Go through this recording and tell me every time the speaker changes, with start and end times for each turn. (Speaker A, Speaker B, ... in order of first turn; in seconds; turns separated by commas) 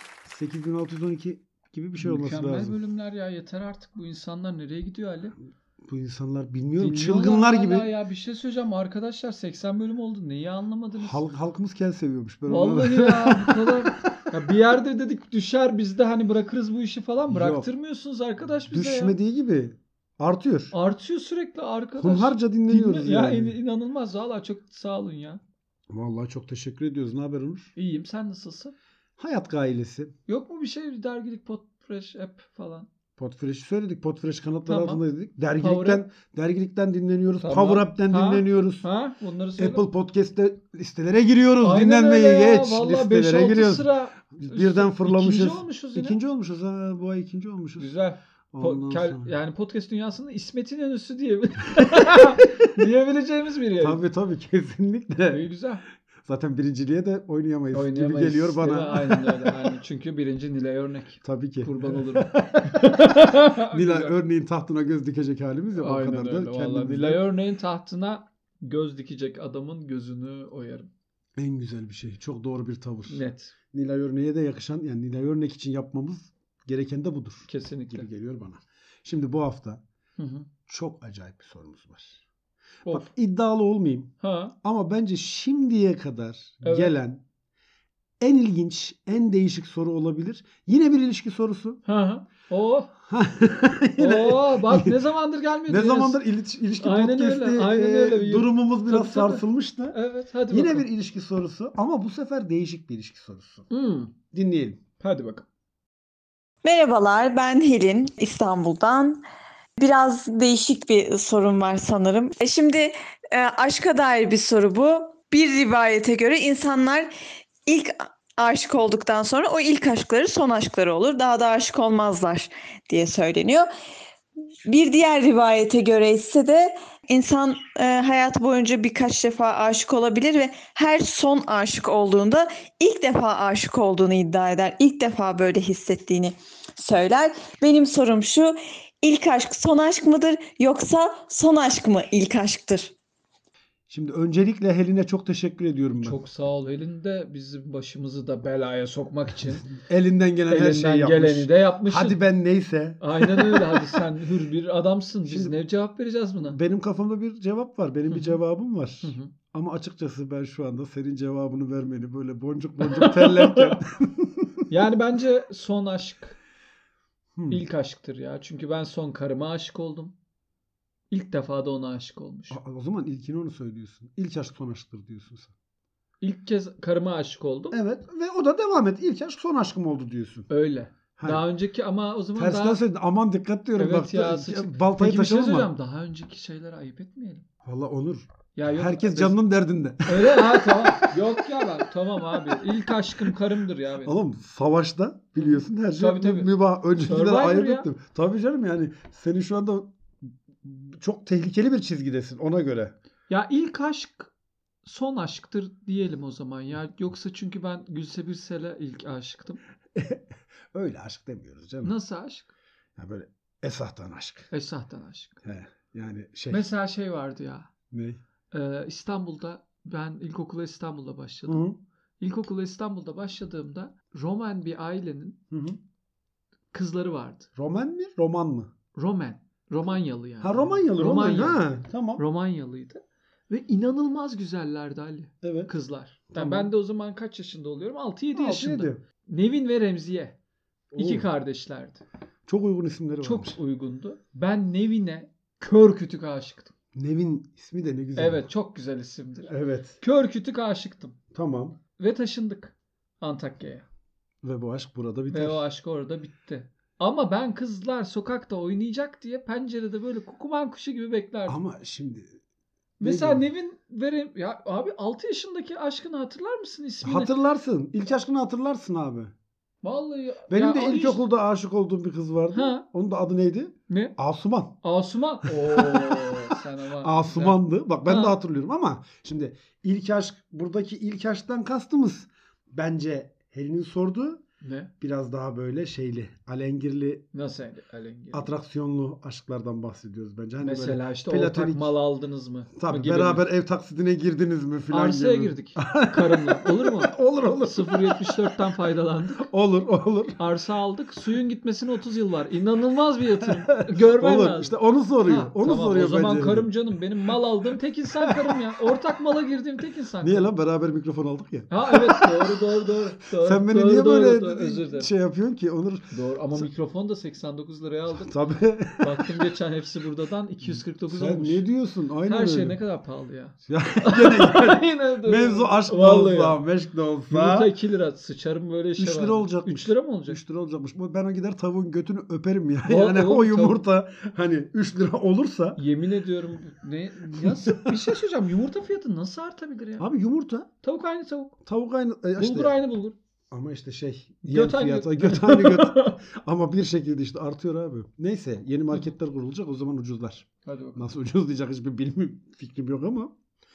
Speaker A: 0.2-2.8, Speaker B: 2.0-5.3, Speaker A: 5.8-7.9, Speaker B: 6.8-11.2, Speaker A: 11.0-14.2, Speaker B: 12.5-19.1, Speaker A: 17.3-17.7, Speaker A: 18.7-20.7, Speaker B: 20.7-25.4, Speaker A: 22.0-23.6, Speaker A: 25.9-27.7, Speaker B: 27.8-28.7, Speaker A: 29.2-30.1, Speaker B: 30.3-32.9, Speaker A: 33.2-38.8, Speaker B: 34.7-35.0, Speaker B: 35.6-36.0, Speaker B: 37.4-39.8, Speaker A: 39.6-47.9, Speaker B: 41.6-46.2, Speaker B: 47.8-54.0, Speaker A: 48.5-49.3, Speaker A: 53.8-55.5, Speaker B: 55.3-55.8, Speaker A: 56.2-59.7, Speaker B: 57.7-64.2, Speaker A: 61.2-67.3, Speaker B: 65.8-70.9, Speaker A: 71.4-79.8, Speaker B: 73.1-73.5, Speaker B: 77.5-78.1, Speaker B: 80.2-80.5, Speaker A: 80.7-82.2, Speaker A: 82.9-87.2, Speaker B: 84.2-84.5, Speaker B: 86.6-86.9, Speaker A: 88.2-91.8, Speaker B: 91.8-92.9, Speaker A: 93.1-95.0, Speaker B: 94.0-96.2, Speaker A: 95.7-103.7, Speaker B: 96.8-100.9, Speaker B: 103.7-104.1, Speaker A: 104.3-104.8, Speaker B: 105.0-105.5, Speaker C: 106.6-109.2, Speaker C: 109.8-117.1, Speaker C: 117.7-123.7, Speaker C: 124.7-142.9, Speaker A: 143.9-146.2, Speaker B: 146.0-149.7, Speaker A: 149.7-154.0, Speaker B: 150.5-152.2, Speaker B: 153.0-156.6, Speaker A: 155.2-155.6, Speaker A: 156.4-164.7, Speaker B: 158.1-158.4, Speaker B: 159.0-159.3, Speaker B: 162.8-163.8, Speaker B: 164.7-166.4, Speaker A: 167.3-167.6, Speaker B: 167.5-170.1, Speaker B: 171.1-172.6, Speaker A: 172.5-175.5, Speaker B: 176.2-177.8, Speaker A: 177.7-180.5, Speaker B: 180.5-182.8, Speaker A: 181.2-181.4, Speaker A: 182.3-185.7, Speaker B: 183.8-187.4, Speaker A: 187.6-191.7, Speaker B: 188.5-189.4, Speaker B: 190.1-194.1, Speaker A: 192.3-193.3, Speaker A: 194.0-199.9, Speaker B: 195.4-197.9, Speaker A: 200.5-202.9, Speaker B: 203.3-204.3, Speaker B: 204.8-209.6, Speaker A: 209.9-211.9, Speaker B: 211.8-212.5, Speaker A: 212.9-214.5, Speaker B: 214.5-215.4, Speaker A: 215.4-216.7, Speaker B: 216.5-217.7, Speaker A: 217.9-218.2, Speaker B: 218.5-221.6, Speaker A: 221.4-221.8, Speaker B: 222.2-225.4, Speaker A: 225.5-225.8, Speaker B: 226.7-227.5, Speaker A: 227.6-228.7, Speaker B: 228.9-231.7, Speaker A: 230.4-232.2, Speaker B: 232.2-240.3, Speaker A: 235.4-235.7, Speaker A: 236.3-236.7, Speaker A: 238.3-239.0, Speaker A: 240.9-241.3, Speaker B: 240.9-242.0, Speaker A: 242.5-243.6, Speaker B: 243.2-246.7, Speaker A: 246.9-248.4, Speaker B: 248.2-251.2, Speaker A: 249.5-250.0, Speaker A: 251.3-251.8, Speaker B: 252.0-253.8, Speaker A: 254.4-255.7, Speaker B: 255.3-261.6, Speaker A: 261.5-262.4, Speaker B: 263.0-267.3, Speaker A: 263.0-263.4, Speaker A: 267.0-269.3, Speaker B: 269.8-271.2, Speaker A: 270.5-274.7, Speaker B: 272.5-272.8, Speaker B: 273.9-274.1, Speaker B: 274.8-278.4, Speaker A: 275.4-276.3, Speaker A: 277.0-284.4, Speaker B: 284.6-284.9, Speaker A: 285.0-287.2, Speaker B: 287.3-288.5, Speaker A: 288.3-291.9, Speaker B: 290.6-293.5, Speaker A: 292.8-298.5, Speaker B: 294.9-299.5, Speaker A: 299.4-300.4, Speaker B: 300.4-310.5, Speaker A: 303.8-306.7, Speaker A: 308.2-308.6, Speaker A: 310.2-312.6, Speaker B: 311.7-315.1, Speaker A: 313.3-316.7, Speaker B: 316.1-318.3, Speaker A: 318.1-319.3, Speaker B: 319.0-321.6, Speaker A: 320.6-322.8, Speaker B: 322.2-326.6, Speaker A: 323.6-327.7, Speaker B: 327.3-330.4, Speaker A: 329.0-335.8, Speaker B: 332.8-333.8, Speaker B: 335.8-340.1, Speaker A: 337.3-338.1, Speaker A: 340.0-340.7, Speaker B: 340.8-341.5, Speaker A: 341.6-342.8, Speaker B: 342.4-343.1, Speaker A: 343.5-353.3, Speaker B: 344.4-346.2, Speaker B: 350.6-351.1